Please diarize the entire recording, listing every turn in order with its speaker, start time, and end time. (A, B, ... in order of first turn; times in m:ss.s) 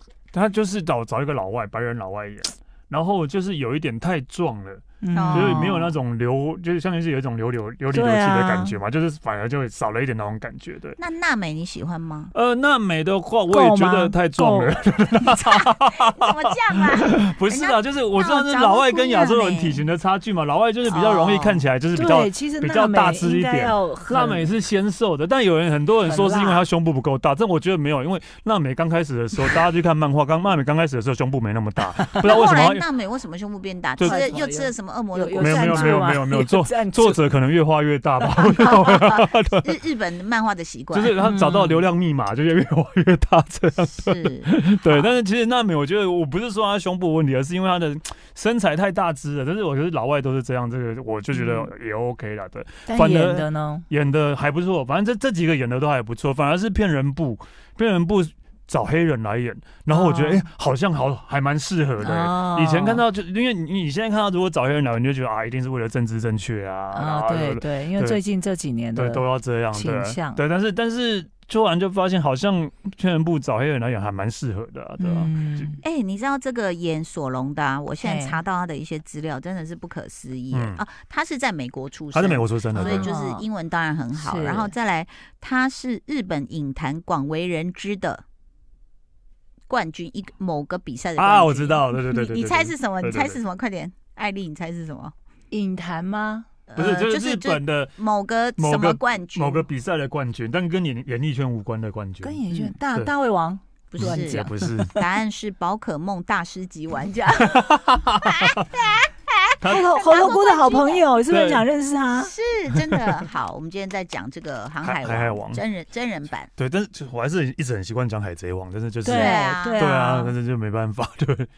0:00.3-0:11.0 A
0:05.0-0:05.9 B
0:05.1-0:05.7 C
0:07.9-0:08.8 B
0:11.0-0:12.3 C
0:12.3-0:32.8 A
0:13.5-0:14.7 B
0:15.4-0:19.8 C
0:20.8-0:21.6 C
0:21.9-0:24.5 B
0:26.0-0:26.6 B
0:32.0-0:32.5 B
0:32.2-0:36.1 C
0:34.0-0:34.3 A
0:34.0-0:37.2 B
0:35.4-0:39.7 A
0:38.6-0:41.2 C
0:40.9-1:08.2 A
0:41.2-0:41.8 B
0:43.9-0:45.1 C
0:51.3-0:51.7 B
0:52.9-0:53.8 B
0:59.9-1:00.5 B
1:02.0-1:03.0 B
1:06.9-1:10.4 B
1:08.9-1:15.8 A
1:15.0-1:15.8 B
1:15.8-1:28.2 C
1:18.0-1:18.4 B
1:20.5-1:20.8 A
1:22.1-1:23.1 A
1:22.7-1:23.4 B
1:24.1-1:24.7 B
1:29.7-1:35.1 C
1:31.2-1:33.4 A
1:35.5-1:36.4 B
1:36.7-1:39.7 C
1:36.8-1:38.0 A
1:38.6-1:42.4 A
1:42.2-1:45.0 B
1:42.5-1:42.8 C
1:43.9-1:51.1 C
1:44.0-1:45.0 A
1:47.5-1:48.6 A
1:49.6-1:49.9 A
1:49.7-1:52.3 B
1:51.3-1:51.7 A
1:52.2-1:56.5 C
1:52.9-1:53.2 A
1:54.8-1:55.6 A
1:56.6-2:01.5 A
1:59.0-2:00.3 B
1:59.1-1:59.8 C